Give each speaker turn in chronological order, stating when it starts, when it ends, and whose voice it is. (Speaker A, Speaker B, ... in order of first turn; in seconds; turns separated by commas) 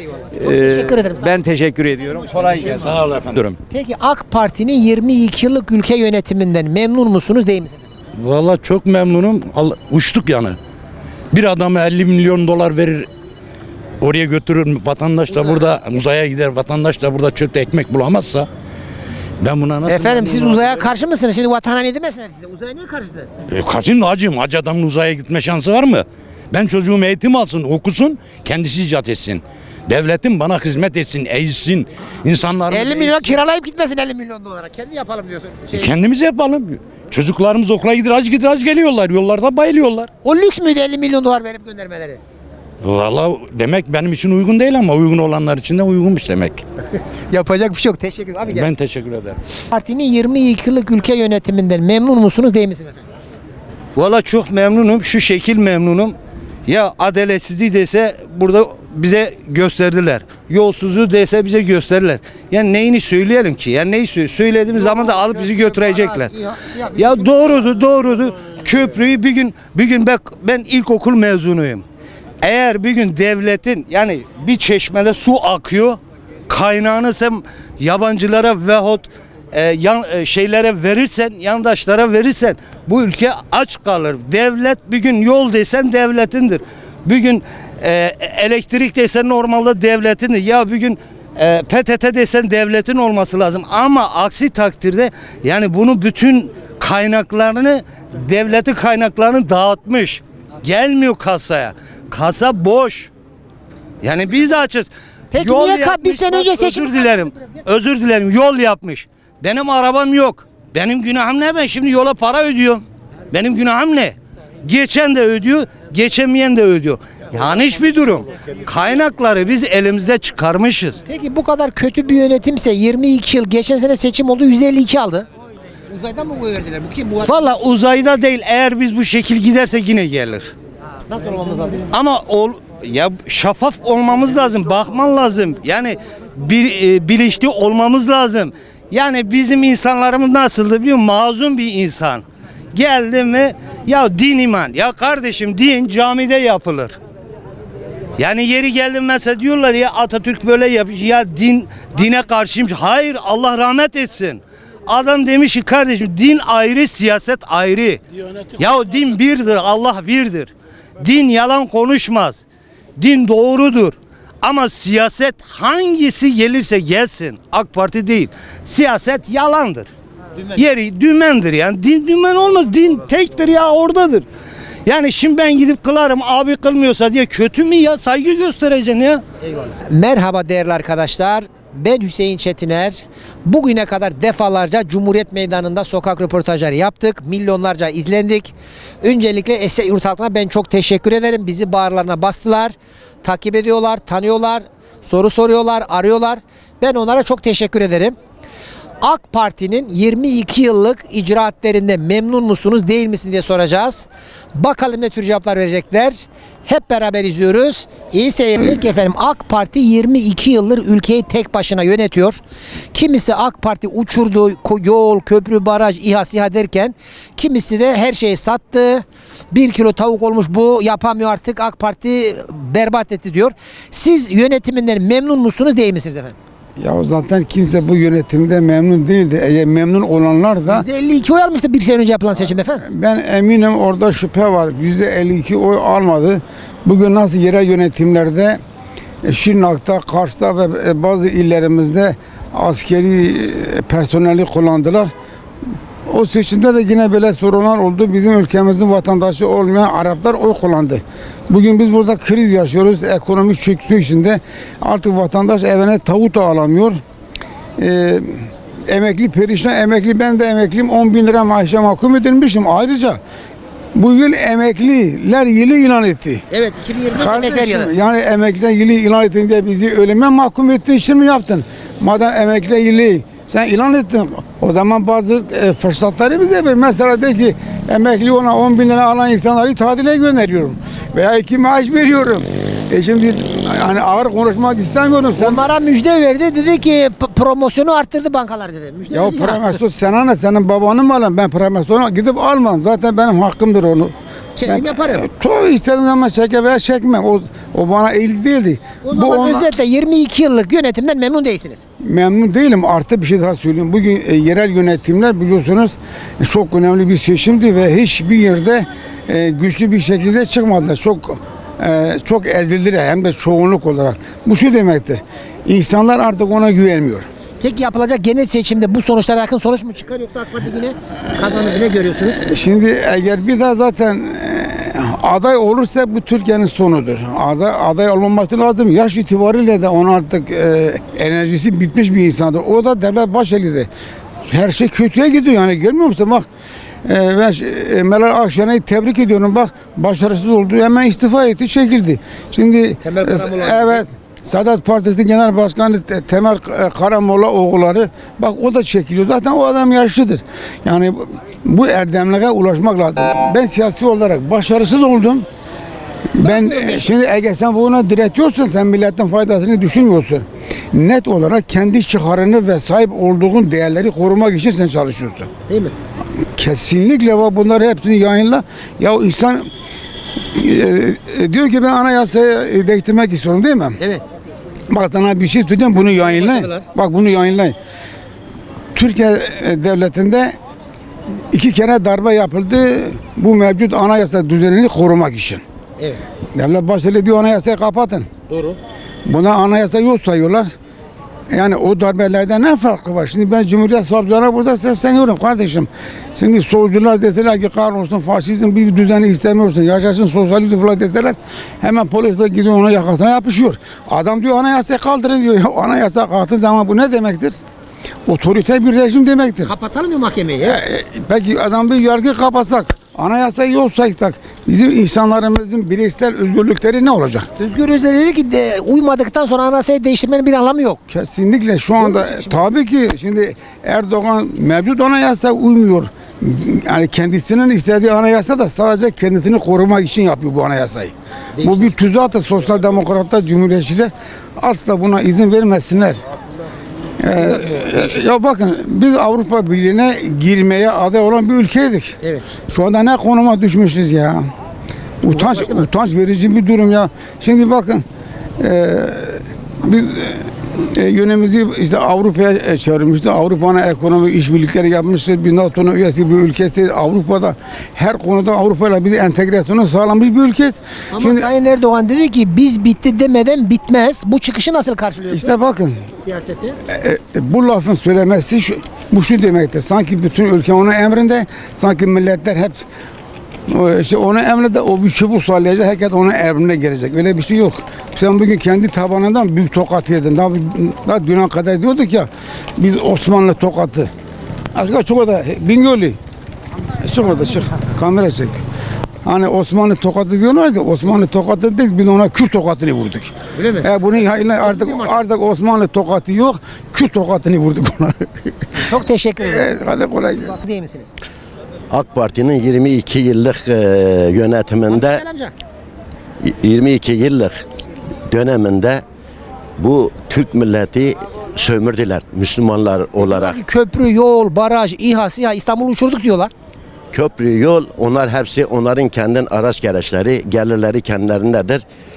Speaker A: 0.1-1.4, Speaker B: 0.3-2.8, Speaker A: 2.0-2.9, Speaker C: 2.9-3.6, Speaker A: 3.7-7.9, Speaker C: 8.2-10.6, Speaker C: 11.3-13.1, Speaker C: 14.0-18.5, Speaker C: 19.4-20.9, Speaker A: 19.9-23.3, Speaker C: 23.5-33.4, Speaker A: 32.7-35.9, Speaker C: 35.7-40.1, Speaker A: 40.2-42.2, Speaker C: 42.8-46.6, Speaker A: 47.3-48.7, Speaker C: 48.5-49.4, Speaker A: 49.7-53.0, Speaker D: 53.9-56.1, Speaker D: 56.7-66.3, Speaker A: 64.8-67.5, Speaker D: 66.9-71.8, Speaker D: 72.4-103.1, Speaker D: 104.0-121.0, Speaker A: 105.3-107.5, Speaker A: 121.0-125.3, Speaker A: 125.9-127.5, Speaker D: 127.2-130.5, Speaker A: 131.1-131.9, Speaker D: 131.9-147.0, Speaker D: 148.2-158.0, Speaker D: 158.6-162.4, Speaker D: 163.0-169.9, Speaker D: 170.5-174.2, Speaker D: 174.8-179.2, Speaker A: 179.4-198.2, Speaker A: 199.0-212.4, Speaker A: 212.9-226.3, Speaker E: 226.8-230.8, Speaker A: 230.7-232.8, Speaker E: 232.8-238.6, Speaker E: 239.2-245.1, Speaker E: 246.1-257.0, Speaker E: 257.8-263.2, Speaker E: 263.9-266.4, Speaker A: 266.5-267.9, Speaker E: 267.1-285.6, Speaker A: 285.4-289.8, Speaker E: 289.1-294.1, Speaker A: 294.6-295.2, Speaker E: 294.6-299.7, Speaker A: 299.0-301.8, Speaker E: 302.0-317.3, Speaker A: 317.6-322.4, Speaker E: 322.4-333.9, Speaker E: 334.4-336.5, Speaker E: 337.0-355.4, Speaker A: 343.0-344.0, Speaker E: 356.3-365.5, Speaker A: 356.4-357.1, Speaker A: 365.7-365.9, Speaker E: 366.5-369.7, Speaker E: 370.5-374.0, Speaker E: 374.9-377.8, Speaker A: 376.0-376.8, Speaker E: 378.9-380.6, Speaker E: 381.5-385.6, Speaker E: 386.5-388.3, Speaker A: 388.5-388.8, Speaker E: 389.2-390.7, Speaker E: 391.5-407.6, Speaker E: 408.2-409.7, Speaker A: 409.6-410.8, Speaker E: 410.6-417.5, Speaker A: 417.6-421.0, Speaker E: 421.1-436.2, Speaker A: 422.0-422.6, Speaker A: 431.6-431.9, Speaker E: 437.2-442.2, Speaker A: 437.4-438.1, Speaker E: 442.7-444.5, Speaker E: 445.2-448.0, Speaker A: 445.3-445.9, Speaker E: 448.6-461.5, Speaker A: 461.1-465.5, Speaker E: 465.3-466.0, Speaker A: 466.2-466.8, Speaker E: 466.9-472.8, Speaker E: 473.7-484.1, Speaker E: 484.7-486.2, Speaker E: 487.0-488.6, Speaker E: 489.2-498.3, Speaker A: 493.6-493.9, Speaker A: 494.6-495.2, Speaker A: 498.8-499.7, Speaker E: 499.4-500.5, Speaker A: 500.4-501.1, Speaker F: 501.9-505.2, Speaker A: 504.9-505.5, Speaker F: 506.4-507.6, Speaker F: 508.3-509.0, Speaker F: 509.8-513.6, Speaker A: 513.2-516.5, Speaker F: 517.1-521.8